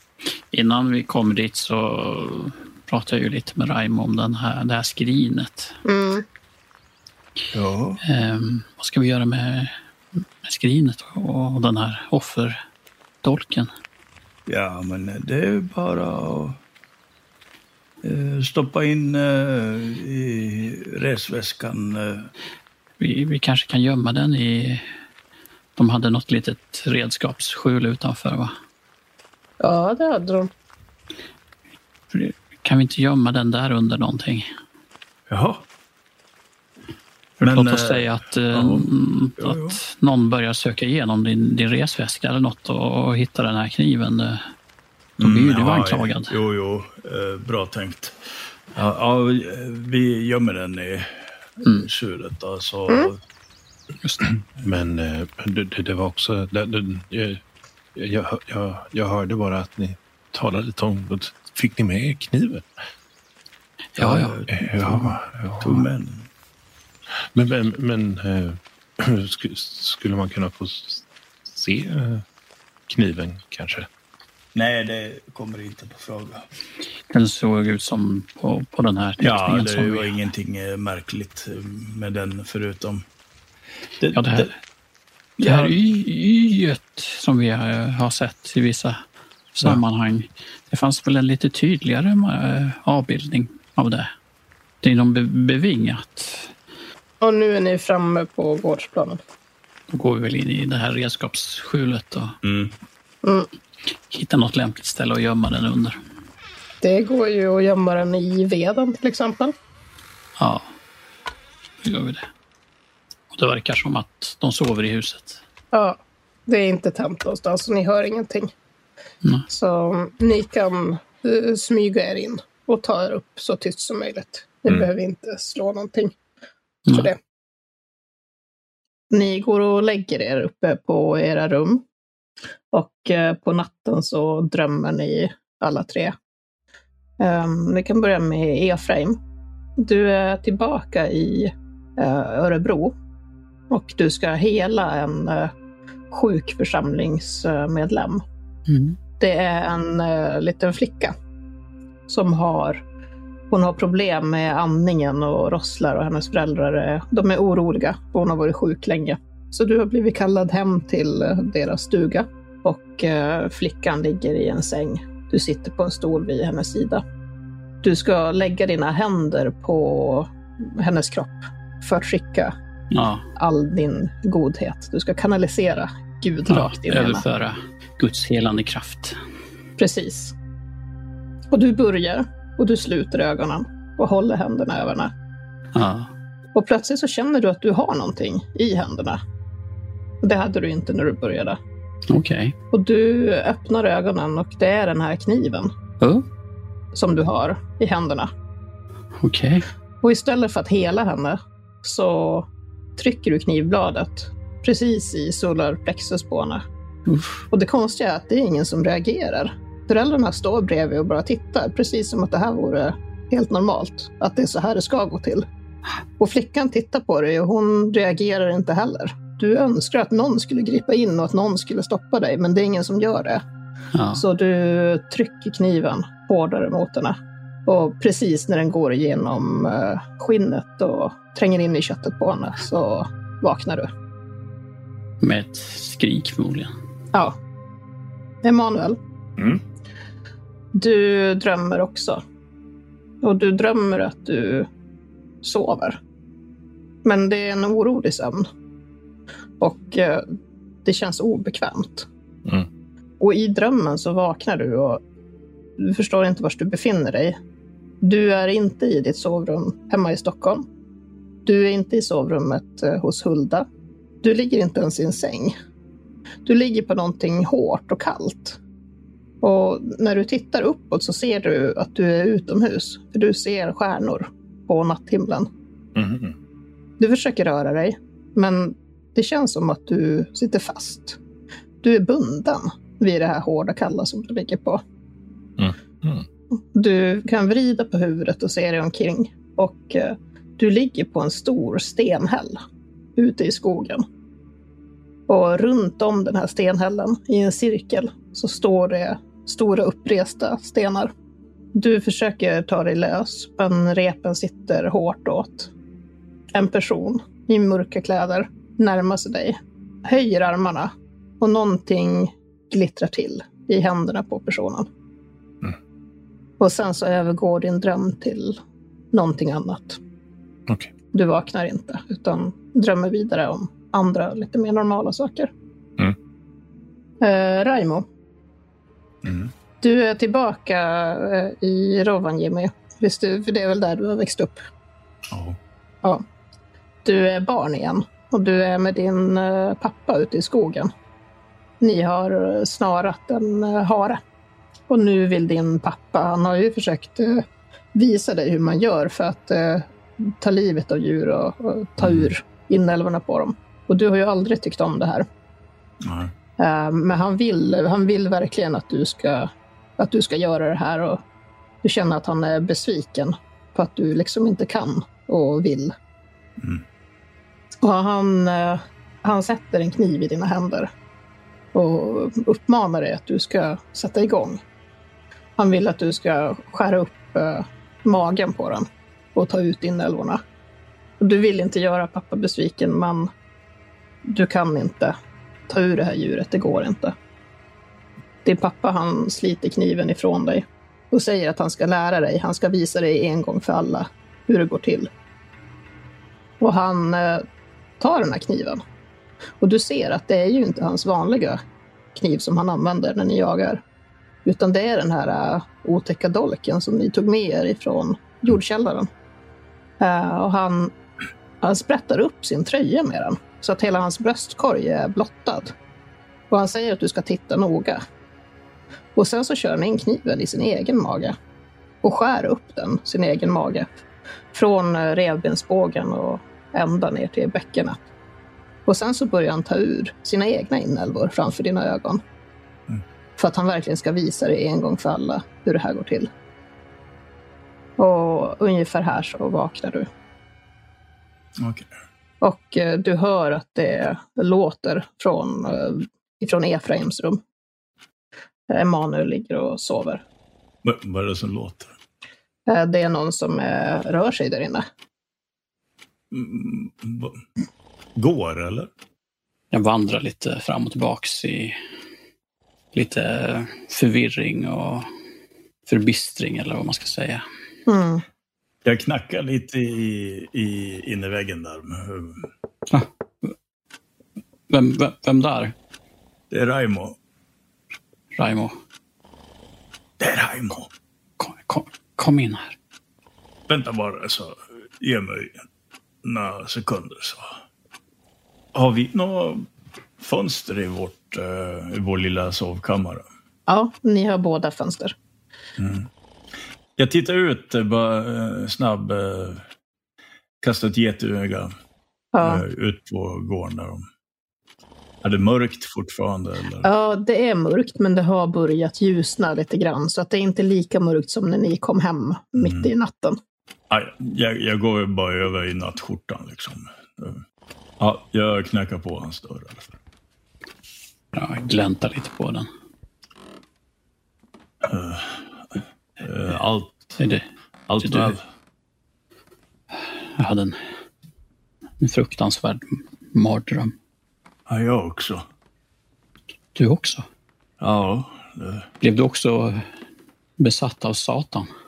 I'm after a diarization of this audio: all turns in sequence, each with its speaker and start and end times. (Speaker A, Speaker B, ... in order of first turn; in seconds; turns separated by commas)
Speaker A: 0.5-5.8, Speaker B: 5.8-6.2, Speaker C: 7.5-8.0, Speaker A: 8.0-9.8, Speaker A: 10.4-12.6, Speaker A: 13.2-13.7, Speaker C: 14.5-16.6, Speaker C: 18.0-22.3, Speaker A: 23.0-24.9, Speaker A: 25.8-28.5, Speaker B: 29.6-30.5, Speaker A: 32.1-34.5, Speaker C: 35.3-35.6, Speaker C: 37.4-39.8, Speaker A: 37.4-44.5, Speaker A: 45.2-46.3, Speaker C: 45.2-48.2, Speaker C: 48.7-51.1, Speaker C: 51.7-53.2, Speaker D: 54.6-57.4, Speaker D: 58.0-62.7, Speaker A: 64.0-64.4, Speaker C: 64.0-66.3, Speaker D: 64.5-65.8, Speaker D: 67.3-72.2, Speaker D: 72.9-73.9, Speaker C: 74.5-76.4, Speaker A: 77.1-80.1, Speaker C: 79.2-83.0, Speaker C: 84.0-84.5, Speaker A: 84.1-84.5, Speaker C: 85.4-85.8, Speaker A: 85.4-89.0, Speaker A: 89.5-94.1, Speaker A: 94.8-96.5, Speaker B: 97.2-99.2, Speaker A: 99.9-102.4, Speaker C: 102.4-102.7, Speaker A: 104.1-106.0, Speaker B: 106.8-109.5, Speaker A: 110.4-110.7, Speaker A: 111.8-112.3, Speaker A: 113.3-115.4, Speaker B: 115.7-118.5, Speaker B: 119.5-126.1, Speaker B: 126.9-127.2, Speaker B: 129.1-131.8, Speaker B: 132.7-136.2, Speaker B: 137.2-139.2, Speaker B: 139.8-142.9, Speaker B: 143.7-145.5, Speaker B: 146.1-148.2, Speaker A: 148.7-149.0, Speaker B: 149.2-151.2, Speaker B: 152.1-152.8, Speaker B: 153.5-167.0, Speaker B: 167.8-172.5, Speaker A: 172.9-173.2, Speaker B: 173.4-177.2, Speaker A: 176.5-179.2, Speaker B: 179.8-180.3, Speaker B: 181.5-185.1, Speaker A: 185.7-186.1, Speaker B: 186.5-189.2, Speaker B: 190.2-191.6, Speaker A: 192.1-192.6, Speaker B: 192.7-195.7, Speaker A: 196.0-196.3, Speaker B: 196.9-198.3, Speaker A: 199.2-199.7, Speaker B: 200.0-206.6, Speaker A: 207.1-207.4, Speaker B: 207.5-215.5, Speaker B: 216.2-223.4, Speaker A: 223.9-224.2, Speaker B: 224.2-233.9, Speaker A: 235.2-236.7, Speaker B: 238.4-239.0, Speaker D: 239.4-239.6, Speaker B: 240.7-242.2, Speaker B: 243.2-244.7, Speaker B: 245.4-246.0, Speaker B: 247.0-248.5, Speaker B: 249.6-250.3, Speaker B: 250.8-252.1, Speaker B: 253.2-255.0, Speaker B: 255.8-257.4, Speaker B: 258.0-260.6, Speaker B: 261.4-263.7, Speaker B: 264.2-265.6, Speaker B: 266.4-268.6, Speaker B: 269.4-275.5, Speaker D: 275.9-276.4, Speaker B: 277.0-281.2, Speaker B: 281.8-284.8, Speaker D: 285.6-286.3, Speaker B: 286.7-292.6, Speaker B: 293.2-294.1, Speaker B: 295.3-301.1, Speaker B: 301.7-305.7, Speaker B: 306.5-314.9, Speaker B: 316.6-318.6, Speaker B: 319.1-320.0, Speaker D: 320.7-320.9, Speaker B: 321.1-325.5, Speaker B: 327.2-328.1, Speaker C: 329.2-329.5, Speaker B: 329.8-334.6, Speaker C: 335.3-335.6, Speaker B: 337.1-340.9, Speaker B: 341.8-344.2, Speaker B: 344.9-355.3, Speaker C: 352.0-352.3, Speaker C: 356.0-356.3, Speaker B: 356.6-361.2, Speaker B: 361.8-365.9, Speaker B: 367.8-370.9, Speaker B: 371.7-374.6, Speaker B: 375.6-380.4, Speaker B: 381.2-383.3, Speaker B: 384.2-385.1, Speaker B: 385.7-387.1, Speaker B: 388.4-395.1, Speaker B: 396.6-397.4, Speaker B: 398.0-398.8, Speaker B: 399.6-401.6, Speaker B: 402.1-403.8, Speaker B: 404.4-409.1, Speaker B: 410.0-410.9, Speaker B: 411.6-415.7, Speaker B: 416.5-418.0, Speaker B: 419.2-421.4, Speaker B: 422.0-423.9, Speaker B: 424.5-428.0, Speaker B: 428.9-432.2, Speaker B: 433.4-436.3, Speaker B: 438.0-440.1, Speaker C: 441.6-441.9, Speaker B: 442.4-447.4, Speaker B: 448.7-450.2, Speaker C: 450.8-451.9, Speaker B: 452.7-454.9, Speaker C: 456.3-457.4, Speaker C: 458.2-458.9, Speaker A: 459.7-461.8, Speaker A: 462.9-465.1, Speaker A: 465.9-467.4, Speaker B: 467.9-468.2, Speaker C: 468.9-472.5, Speaker A: 472.9-473.5, Speaker A: 474.7-475.7, Speaker C: 476.5-477.2, Speaker A: 478.4-478.8, Speaker C: 480.2-480.9, Speaker A: 481.4-482.8, Speaker C: 483.7-485.6, Speaker C: 486.2-487.6, Speaker C: 488.7-489.7, Speaker C: 490.2-493.3, Speaker B: 493.7-495.1, Speaker C: 495.8-496.1, Speaker C: 497.0-499.6, Speaker C: 500.6-501.7, Speaker B: 502.3-502.6, Speaker C: 502.4-504.1, Speaker C: 505.2-506.9, Speaker B: 506.8-513.4, Speaker C: 512.6-512.9, Speaker C: 513.9-517.4, Speaker C: 518.0-519.9, Speaker A: 521.3-522.7, Speaker C: 524.8-527.1, Speaker A: 527.2-527.5, Speaker C: 527.9-528.4, Speaker A: 528.0-528.4, Speaker A: 530.4-530.8, Speaker A: 532.0-534.0, Speaker C: 534.7-535.4, Speaker A: 536.8-537.2, Speaker C: 537.8-538.9, Speaker A: 539.0-539.8, Speaker A: 540.6-541.7